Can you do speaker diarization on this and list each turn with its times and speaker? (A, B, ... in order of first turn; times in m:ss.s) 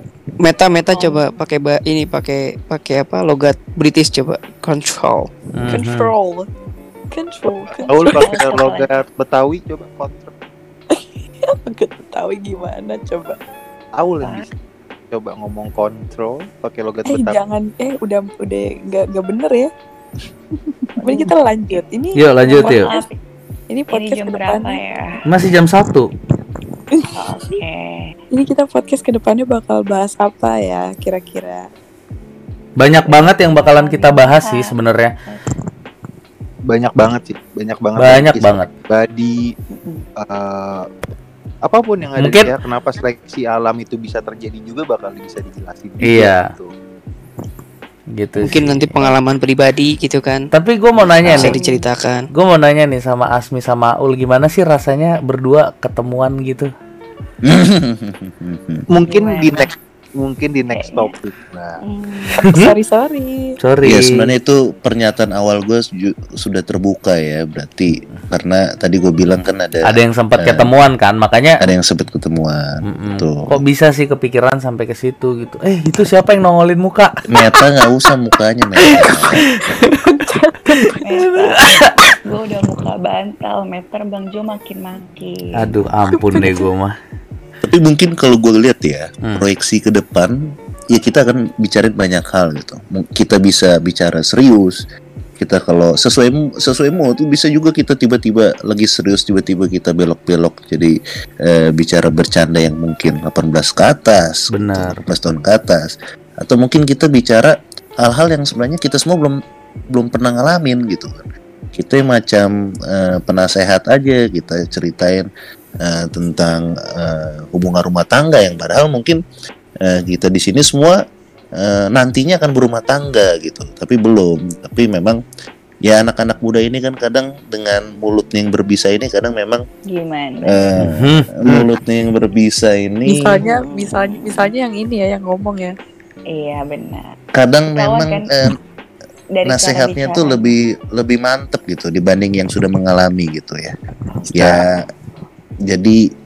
0:00.4-0:05.3 A
0:05.5-0:06.1 B
0:05.7-0:06.5 C
0:07.1-0:08.3 C
0:07.8-0:10.3 D
0:08.2-0:08.9 E
0:10.9-0:13.4 C
0:14.0-0:14.5 D
0:14.2-0:14.5 E
0:15.1-0:17.5 D
0:17.0-0:19.7 C
0:21.0-0:21.8 E
0:21.0-0:23.0 C
0:22.2-0:22.9 B
0:22.5-0:23.2 E
0:23.7-0:24.8 C
0:23.9-0:25.2 E
0:25.3-0:26.1 B
0:27.2-0:28.1 E
0:28.3-0:31.7 C
0:32.8-0:35.2 B
0:33.0-0:35.5 E
0:36.7-0:39.5 D
0:38.0-0:38.7 B
0:39.7-0:40.0 E
0:40.2-0:40.8 D
0:41.6-0:46.7 D
0:42.2-0:42.5 B
0:46.0-0:46.5 B
0:48.1-0:49.1 B
0:48.4-0:50.4 A
0:50.5-0:51.6 B
0:51.2-0:52.3 A
0:51.4-0:51.9 E
0:52.3-0:56.7 B
0:57.4-0:58.8 F
0:58.9-1:01.8 D
0:59.1-0:59.6 E
1:00.7-1:01.2 E
1:01.8-1:02.4 E
1:02.4-1:02.7 B
1:02.4-1:03.4 C
1:03.6-1:04.3 B
1:03.8-1:10.7 F
1:09.8-1:11.6 B
1:11.6-1:13.6 F
1:12.8-1:17.6 B
1:17.3-1:19.4 F
1:19.0-1:20.0 B
1:20.0-1:21.0 C
1:20.7-1:22.0 B
1:21.0-1:25.8 E
1:25.5-1:26.9 B
1:26.2-1:26.5 C
1:27.6-1:30.4 F
1:30.9-1:34.8 F
1:35.4-1:49.4 F
1:44.5-1:45.0 B
1:49.9-1:55.3 F
1:55.8-1:59.2 F
1:59.8-2:01.0 F
2:01.6-2:05.2 F
2:05.8-2:09.6 F
2:09.9-2:10.6 E
2:10.4-2:13.3 F
2:10.8-2:11.3 B
2:13.0-2:15.7 C
2:13.4-2:14.4 E
2:16.3-2:17.1 E
2:17.3-2:18.6 F
2:17.8-2:18.5 E
2:19.4-2:20.6 E
2:19.4-2:23.7 F
2:24.1-2:24.5 E
2:24.3-2:24.7 F
2:25.7-2:26.0 F